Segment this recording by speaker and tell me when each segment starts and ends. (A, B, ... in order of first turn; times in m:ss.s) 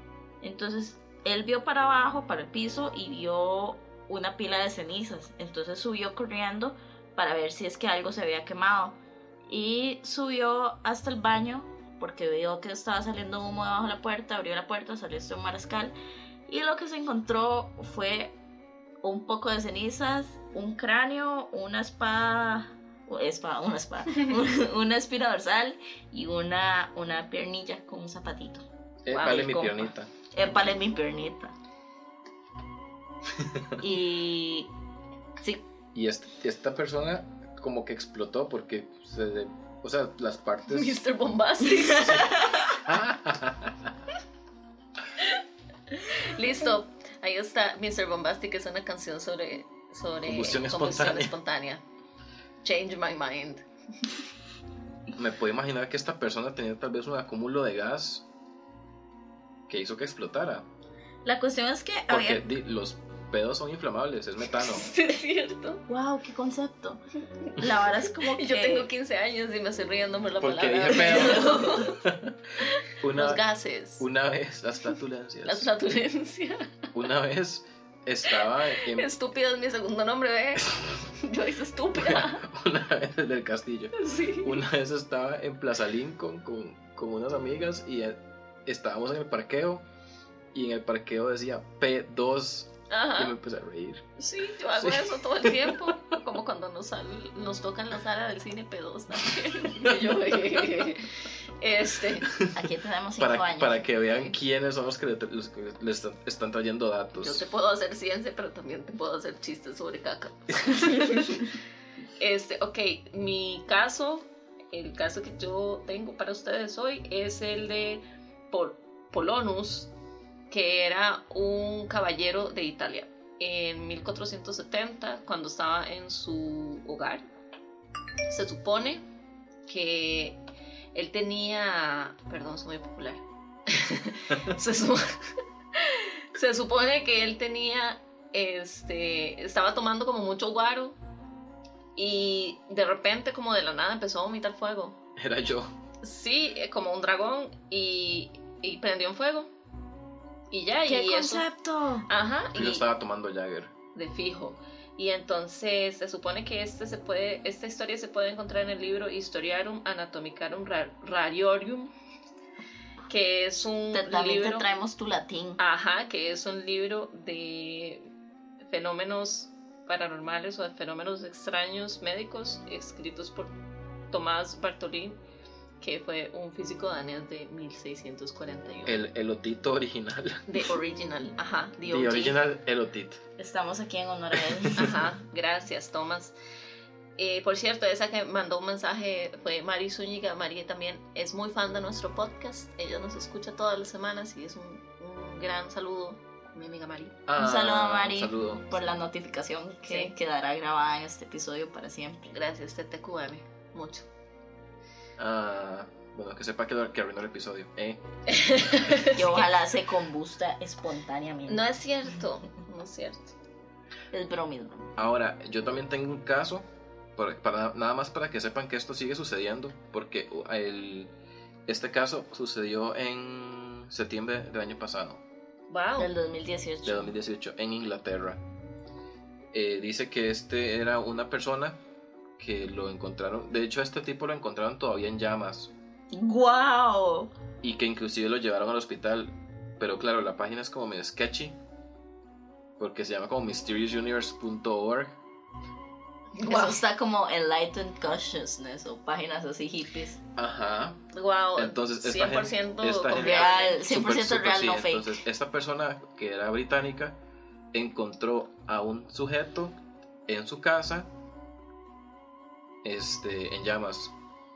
0:00.4-0:09.0 A
0:09.5-0:16.0 A
0:16.5-0:18.3 A
0:19.0-0:28.6 A
0:29.0-0:30.1 B
0:29.1-0:29.6 C
0:29.2-0:31.6 A
0:33.4-0:33.7 B
0:33.8-0:34.7 A
0:35.9-0:41.0 B
0:40.7-0:42.6 C
0:42.0-0:42.8 A
0:42.0-0:42.3 B
0:42.8-0:43.9 B
0:46.0-0:51.8 C
0:50.2-0:51.3 B
0:52.6-0:53.6 C
0:55.2-0:58.2 B
0:59.7-1:00.7 B
1:01.2-1:02.5 A
1:02.1-1:04.9 B
1:04.6-1:05.8 C
1:05.9-1:07.0 A
1:07.6-1:08.9 A
1:08.0-1:12.0 C
1:10.4-1:12.4 B
1:12.6-1:14.1 C
1:13.0-1:13.4 B
1:14.0-1:15.7 B
1:15.5-1:16.9 C
1:16.9-1:19.1 B
1:18.3-1:22.4 C
1:22.0-1:29.8 B
1:24.0-1:24.6 C
1:30.5-1:34.1 B
1:32.9-1:33.4 C
1:34.2-1:42.3 C
1:34.8-1:35.9 B
1:42.5-1:43.9 A
1:43.2-1:47.4 B
1:47.2-1:51.6 C
1:52.2-1:59.9 C
2:00.5-2:07.2 C
2:08.3-2:09.0 C
2:09.7-2:10.4 C
2:10.9-2:21.0 C
2:22.0-2:25.0 C
2:25.2-2:25.7 B
2:26.0-2:29.5 C
2:30.5-2:31.4 C
2:30.9-2:32.1 A
2:32.1-2:32.9 C
2:32.5-2:33.7 B
2:34.0-2:41.9 C
2:43.1-2:44.7 C
2:43.9-2:45.6 A
2:45.6-2:48.1 C
2:48.7-2:53.5 C
2:54.1-2:55.2 C
2:55.8-2:59.0 C
2:58.9-3:00.6 B
3:00.5-3:02.4 C
3:01.8-3:03.2 B
3:03.4-3:04.9 A
3:04.4-3:05.0 B
3:04.8-3:06.4 C
3:07.2-3:17.2 C
3:17.3-3:18.8 B
3:17.4-3:22.3 A
3:19.9-3:20.1 C
3:22.3-3:24.1 C
3:25.2-3:28.0 B
3:28.3-3:29.5 C
3:29.1-3:31.7 A
3:31.5-3:33.4 C
3:34.1-3:34.9 A
3:35.0-3:41.1 B
3:41.7-3:45.2 B
3:45.7-3:46.1 C
3:46.0-3:47.1 A
3:46.8-3:48.4 B
3:49.5-3:51.8 B
3:52.4-3:55.7 B
3:56.1-3:57.3 A
3:57.6-4:01.6 B
4:02.8-4:05.2 B
4:06.4-4:06.8 C
4:06.4-4:10.2 A
4:10.4-4:11.0 B
4:11.1-4:13.8 C
4:11.6-4:17.2 B
4:13.1-4:15.2 A
4:17.7-4:19.8 B
4:20.3-4:21.1 B
4:22.8-4:24.1 B